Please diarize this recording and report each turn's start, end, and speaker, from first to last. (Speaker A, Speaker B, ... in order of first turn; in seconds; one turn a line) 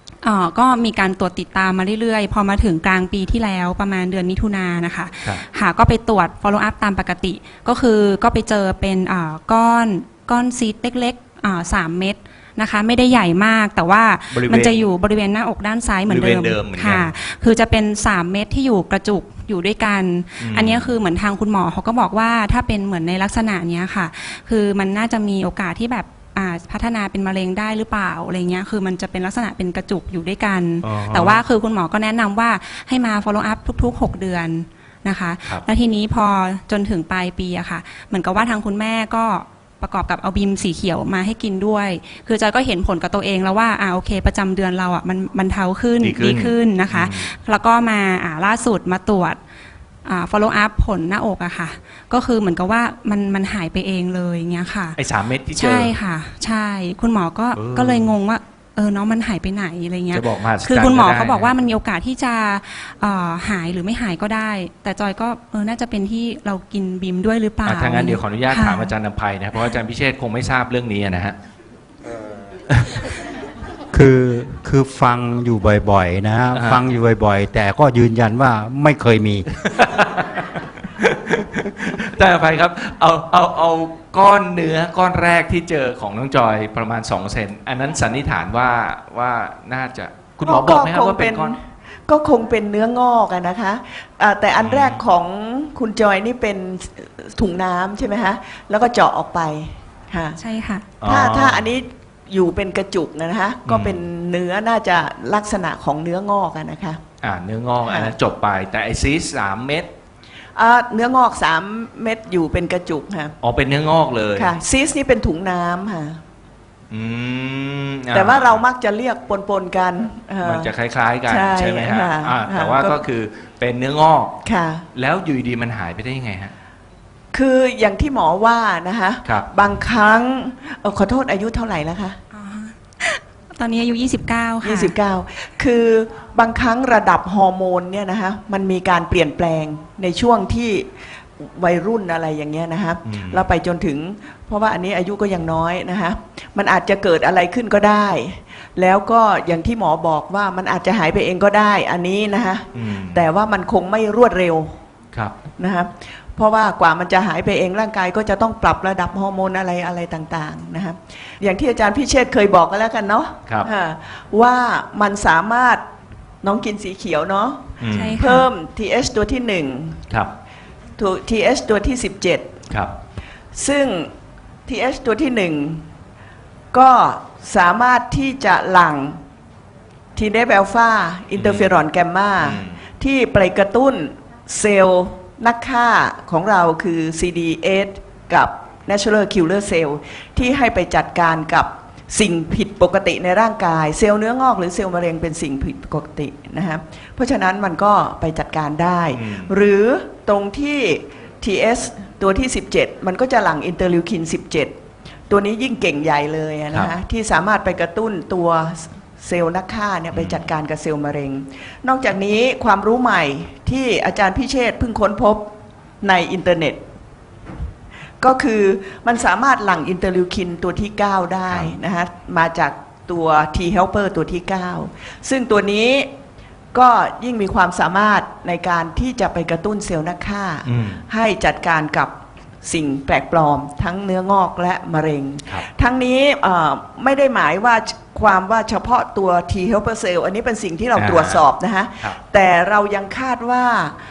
Speaker A: 0.2-49.4
Speaker B: 14.3-14.9
Speaker B: 16.1-17.1
Speaker B: 20.4-20.9
Speaker B: 30.8-31.4
Speaker B: 46.0-47.3
Speaker A: 50.0-55.0
Speaker B: 55.0-55.9
Speaker A: 55.6-68.9
Speaker B: 57.5-58.1
Speaker B: 60.1-61.5
Speaker B: 67.7-71.4
Speaker C: 73.9-79.5
Speaker B: 76.5-76.8
Speaker B: 79.6-91.6
Speaker D: 90.4-100.4
Speaker B: 94.6-95.0
Speaker A: 100.4-100.9
Speaker B: 101.0-101.7
Speaker D: 101.0-107.0
Speaker B: 103.7-104.0
Speaker B: 107.2-109.9
Speaker D: 107.9-108.1
Speaker D: 110.6-113.3
Speaker B: 113.4-114.5
Speaker D: 114.3-116.2
Speaker B: 116.9-118.6
Speaker D: 118.1-120.7
Speaker B: 120.4-124.4
Speaker D: 121.3-123.0
Speaker D: 124.5-124.9
Speaker B: 124.9-126.5
Speaker D: 127.3-132.2
Speaker A: 132.3-135.0
Speaker D: 134.6-154.8
Speaker B: 143.1-143.4
Speaker B: 152.7-153.2
Speaker D: 155.6-165.8
Speaker D: 166.4-170.0
Speaker B: 167.8-168.2
Speaker A: 167.9-168.5
Speaker D: 171.0-172.5
Speaker B: 172.7-172.9
Speaker D: 173.5-174.1
Speaker D: 174.7-175.8
Speaker D: 176.7-179.2
Speaker D: 180.2-204.7
Speaker B: 181.3-181.8
Speaker B: 182.4-182.8
Speaker B: 199.1-199.5
Speaker D: 205.3-215.5
Speaker B: 210.1-210.5
Speaker D: 216.0-216.8
Speaker D: 218.2-226.1
Speaker B: 221.5-221.8
Speaker D: 226.7-243.9
Speaker B: 230.7-231.0
Speaker B: 241.0-241.4